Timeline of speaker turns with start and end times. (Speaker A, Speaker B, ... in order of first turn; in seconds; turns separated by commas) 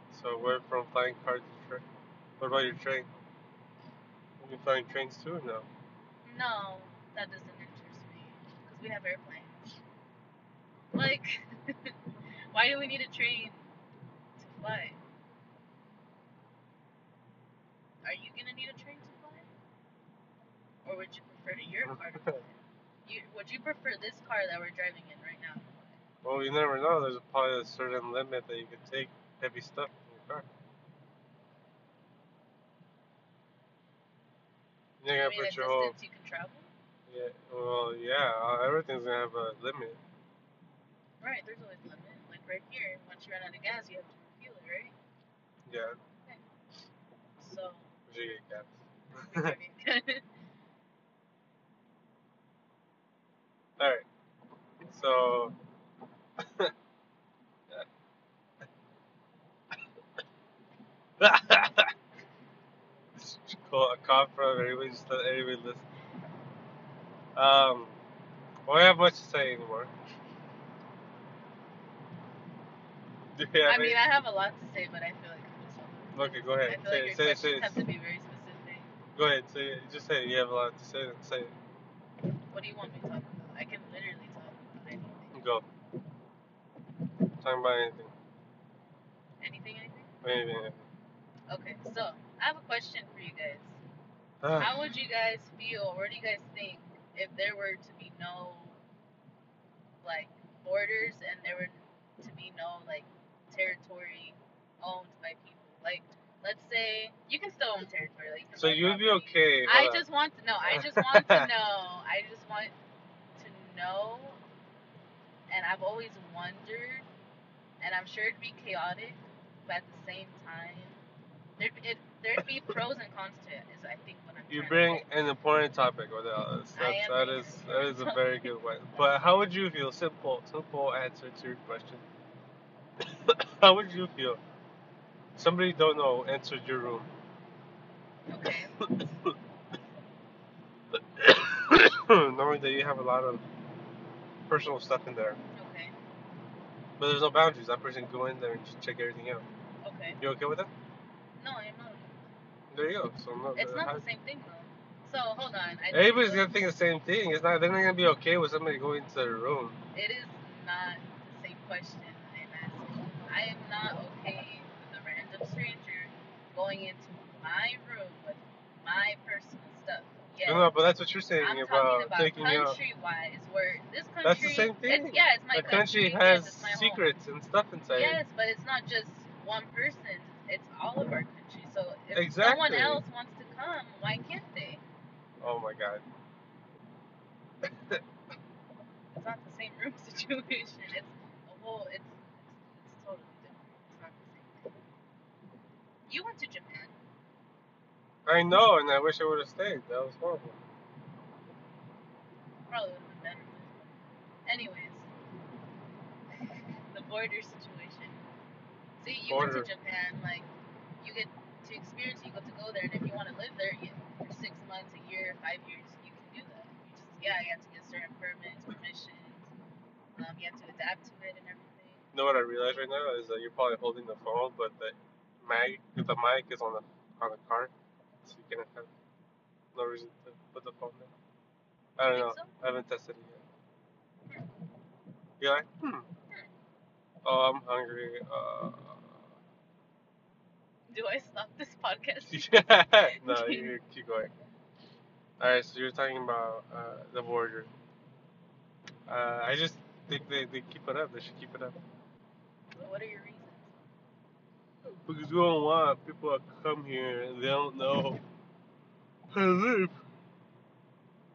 Speaker A: 0.1-1.8, Speaker A: 2.4-3.1, Speaker A: 4.4-5.7, Speaker B: 6.2-9.8, Speaker B: 10.9-12.0, Speaker B: 12.5-13.7, Speaker B: 14.4-15.0, Speaker B: 18.0-19.5, Speaker B: 20.8-26.0, Speaker A: 21.9-22.4, Speaker A: 26.2-30.5, Speaker A: 35.0-35.9, Speaker B: 35.1-36.7, Speaker A: 37.1-40.0, Speaker B: 41.2-45.0, Speaker A: 45.6-46.0, Speaker B: 47.4-48.0, Speaker A: 48.1-49.5, Speaker B: 49.2-50.3, Speaker A: 53.8-54.0, Speaker A: 54.9-55.5, Speaker A: 56.4-56.7, Speaker A: 61.2-61.9, Speaker A: 63.1-65.8, Speaker A: 67.3-68.0, Speaker A: 68.7-69.9, Speaker A: 73.3-74.0, Speaker B: 73.6-78.9, Speaker A: 76.1-77.8, Speaker A: 79.2-81.5, Speaker B: 82.5-85.4, Speaker A: 85.3-85.6, Speaker A: 87.4-88.1, Speaker B: 89.4-90.1, Speaker A: 90.2-90.9, Speaker B: 91.5-93.8, Speaker A: 94.4-94.7, Speaker B: 94.5-98.8, Speaker B: 100.0-112.7, Speaker A: 108.6-110.1, Speaker A: 110.6-111.5, Speaker B: 113.3-114.4, Speaker B: 115.5-117.0, Speaker B: 117.8-121.0, Speaker B: 121.6-125.0, Speaker A: 124.5-132.0, Speaker B: 126.7-129.2, Speaker A: 133.0-134.4, Speaker A: 135.4-137.1, Speaker B: 138.3-138.7, Speaker A: 138.8-139.3, Speaker A: 141.2-143.4, Speaker A: 144.5-145.4, Speaker B: 145.5-145.9, Speaker A: 147.0-149.4, Speaker B: 149.8-150.2, Speaker A: 150.2-150.7, Speaker B: 151.4-152.4, Speaker A: 152.7-154.0, Speaker B: 153.6-156.6, Speaker A: 155.9-159.8, Speaker B: 159.9-170.8, Speaker A: 170.4-172.8, Speaker B: 171.4-177.1, Speaker A: 174.2-178.2, Speaker B: 177.9-184.8, Speaker A: 182.1-183.0, Speaker A: 185.4-186.0, Speaker A: 187.6-188.0, Speaker B: 189.1-194.7, Speaker B: 196.1-197.0, Speaker A: 198.2-200.6, Speaker B: 202.7-203.9, Speaker B: 204.4-205.1, Speaker B: 206.3-208.2, Speaker B: 209.0-210.5, Speaker A: 209.3-209.7, Speaker B: 211.0-219.5, Speaker B: 220.2-222.1, Speaker A: 222.1-227.7, Speaker A: 228.2-228.9, Speaker A: 229.7-231.1, Speaker A: 232.0-233.4, Speaker B: 232.1-232.5, Speaker A: 235.4-236.1, Speaker A: 237.2-239.2, Speaker B: 240.9-243.8, Speaker A: 242.3-244.3, Speaker A: 245.4-247.7, Speaker A: 249.1-251.8, Speaker B: 252.8-253.8, Speaker A: 254.8-258.2, Speaker A: 259.3-259.9